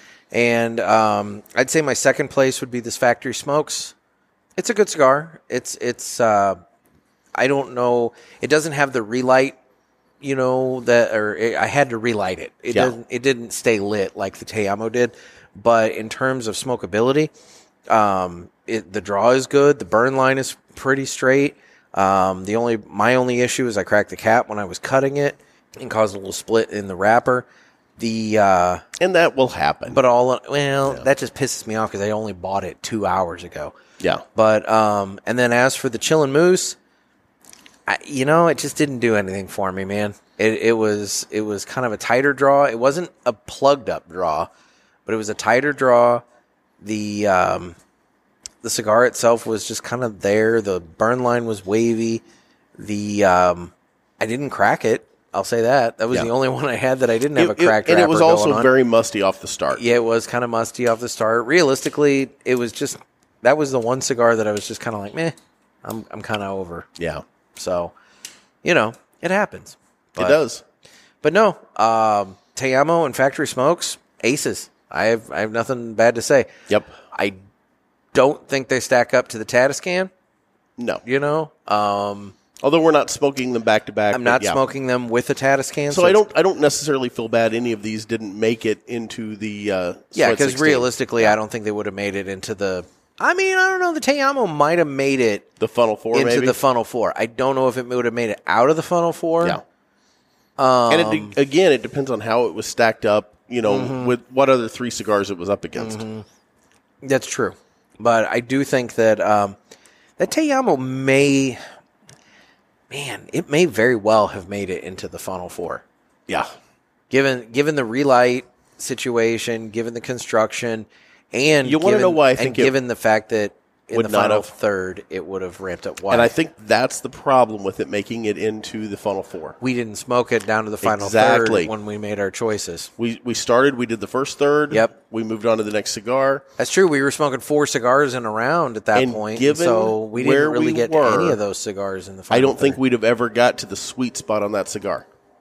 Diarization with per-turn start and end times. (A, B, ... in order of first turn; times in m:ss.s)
0:00.3-0:03.9 A
0:04.6-0:06.6 A
0:07.4-0:09.6 A
0:10.2-0:17.3 A
0:17.9-0:27.4 A
0:28.0-0:28.8 A
0:29.0-0:30.0 B
0:29.9-0:33.7 A
0:34.3-0:36.8 A
0:37.9-0:44.5 A
0:45.0-0:46.2 A
0:46.8-0:47.8 A
0:48.6-0:52.2 A
0:52.8-0:58.7 A
0:57.4-0:59.8 B
0:59.7-1:06.9 A
1:07.0-1:07.2 B
1:07.6-1:07.9 A
1:08.6-1:10.4 A
1:10.2-1:10.6 B
1:11.2-1:16.5 A
1:17.1-1:17.4 A
1:18.1-1:20.1 A
1:20.8-1:21.0 B
1:21.0-1:22.3 A
1:22.6-1:24.6 B
1:24.1-1:26.2 A
1:25.9-1:31.4 B
1:30.1-1:35.5 A
1:35.6-1:36.6 B
1:36.1-1:39.6 A
1:40.6-1:41.3 A
1:40.9-1:46.0 B
1:43.6-1:44.2 A
1:45.8-1:46.2 A
1:47.0-1:49.6 A
1:50.2-1:51.6 A
1:52.9-1:55.8 A
1:57.1-2:06.3 A
2:01.6-2:02.7 B
2:03.9-2:04.5 B
2:06.1-2:09.6 B
2:09.6-2:12.9 A
2:10.8-2:11.7 B
2:13.0-2:16.4 B
2:16.6-2:22.8 A
2:18.9-2:21.4 B
2:22.3-2:25.0 B